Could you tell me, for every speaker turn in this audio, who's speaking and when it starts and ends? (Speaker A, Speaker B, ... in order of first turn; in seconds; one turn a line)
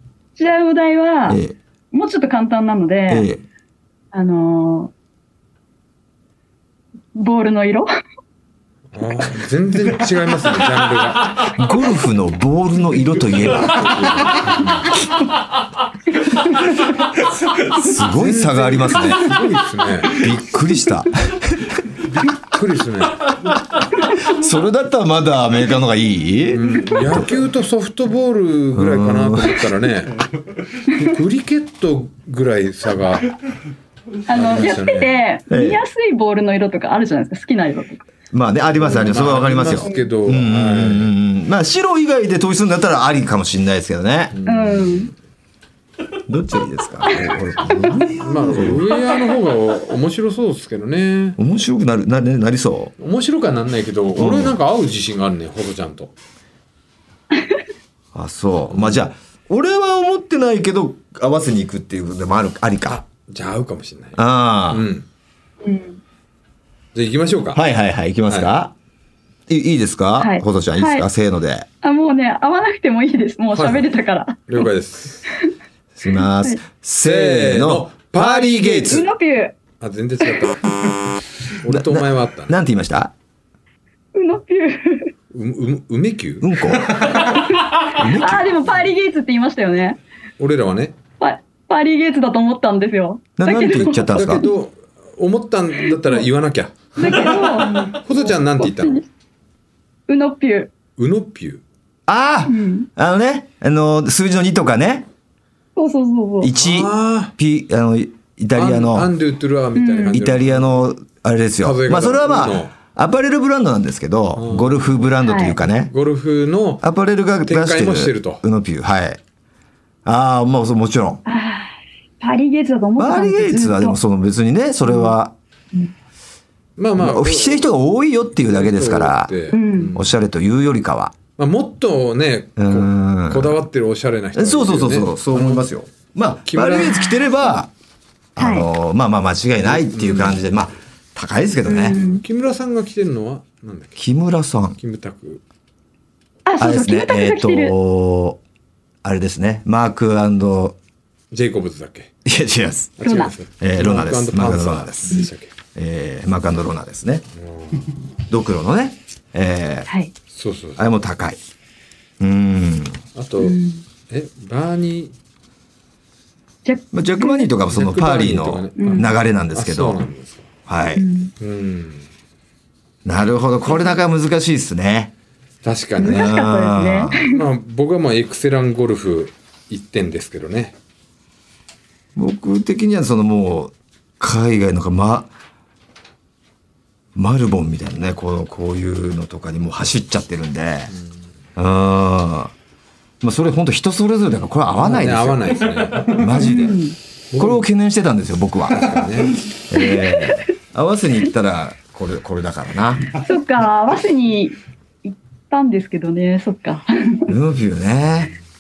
Speaker A: 0.4-1.4
Speaker B: 1.3-1.6
Speaker A: 1.9-3.3
Speaker B: 3.1-3.4
Speaker A: 4.1-4.9
Speaker A: 7.2-7.9
Speaker C: 8.9-11.6
Speaker B: 11.6-13.9
Speaker C: 13.3-15.0
Speaker B: 17.6-19.3
Speaker C: 18.1-20.3
Speaker B: 20.1-21.8
Speaker C: 22.0-23.6
Speaker B: 24.2-27.3
Speaker C: 26.5-30.2
Speaker B: 28.8-29.6
Speaker C: 30.9-33.4
Speaker A: 34.3-38.0
Speaker C: 34.3-35.2
Speaker B: 35.5-35.8
Speaker B: 38.3-44.4
Speaker C: 38.8-41.1
Speaker C: 44.3-45.1
Speaker A: 44.5-45.1
Speaker B: 46.3-48.8
Speaker C: 48.2-51.4
Speaker B: 51.4-52.9
Speaker C: 53.0-56.1
Speaker B: 54.2-54.6
Speaker B: 58.1-63.0
Speaker C: 58.7-59.1
Speaker C: 62.9-65.1
Speaker B: 64.2-64.9
Speaker A: 65.6-66.0
Speaker C: 66.9-67.6
Speaker B: 67.5-68.7
Speaker B: 69.5-71.7
Speaker A: 70.2-71.1
Speaker A: 71.8-74.7
Speaker C: 73.5-73.9
Speaker C: 74.5-75.3
Speaker B: 76.0-79.1
Speaker A: 76.1-76.6
Speaker C: 77.0-79.0
Speaker A: 78.6-79.6
Speaker C: 79.8-80.6
Speaker A: 80.3-80.5
Speaker C: 81.5-82.6
Speaker B: 81.7-83.1
Speaker A: 84.1-85.1
Speaker C: 85.3-87.3
Speaker B: 86.4-87.3
Speaker A: 87.2-90.0
Speaker B: 87.9-88.6
Speaker C: 90.4-91.0
Speaker A: 91.2-94.5
Speaker B: 93.4-94.5
Speaker C: 94.1-99.0
Speaker A: 97.0-99.1
Speaker A: 100.1-100.7
Speaker C: 101.0-101.6
Speaker B: 102.1-105.1
Speaker A: 102.5-102.9
Speaker A: 105.8-106.5
Speaker B: 106.4-109.1
Speaker C: 106.5-107.3
Speaker C: 108.5-110.9
Speaker A: 109.8-110.2
Speaker B: 110.1-115.9
Speaker C: 111.6-112.7
Speaker C: 114.4-115.0
Speaker A: 115.2-115.6
Speaker C: 115.9-116.8
Speaker B: 116.8-119.2
Speaker C: 117.5-118.4
Speaker B: 120.0-121.2
Speaker A: 121.3-124.0
Speaker B: 123.0-125.3
Speaker A: 124.8-125.2
Speaker C: 126.8-127.7
Speaker B: 127.0-129.4
Speaker C: 128.4-130.1
Speaker A: 129.5-129.9
Speaker B: 129.9-131.2
Speaker C: 131.4-135.7
Speaker B: 132.6-133.6
Speaker B: 134.3-137.7
Speaker C: 136.5-137.2
Speaker B: 138.4-142.0
Speaker A: 138.4-138.7
Speaker C: 139.6-140.4
Speaker A: 141.7-142.2
Speaker C: 141.9-144.0
Speaker B: 144.0-144.8
Speaker C: 144.8-145.4
Speaker A: 146.5-147.7
Speaker B: 146.6-148.4
Speaker B: 149.0-150.8
Speaker C: 151.3-152.1
Speaker B: 152.2-153.0
Speaker C: 153.0-155.5
Speaker A: 153.0-153.3
Speaker B: 153.6-157.2
Speaker C: 157.4-157.9
Speaker B: 158.3-159.9
Speaker C: 160.3-160.8
Speaker B: 160.8-161.4
Speaker B: 162.2-163.0
Speaker C: 163.2-165.1
Speaker A: 163.4-163.8
Speaker A: 166.6-167.5
Speaker B: 166.9-170.0
Speaker C: 167.7-170.5
Speaker A: 168.8-169.1
Speaker B: 170.7-171.1
Speaker A: 171.0-171.3
Speaker C: 171.4-172.1
Speaker B: 173.1-175.1
Speaker C: 175.6-176.3
Speaker A: 176.0-177.4
Speaker B: 176.0-177.2
Speaker C: 177.2-180.8
Speaker B: 182.2-185.3
Speaker B: 187.2-190.9
Speaker B: 191.6-192.5
Speaker B: 193.2-196.8
Speaker C: 194.7-196.5
Speaker A: 196.4-197.0
Speaker C: 197.3-197.6
Speaker B: 197.3-203.1
Speaker C: 198.7-199.3
Speaker A: 199.8-200.4
Speaker A: 203.1-207.3
Speaker B: 207.3-208.3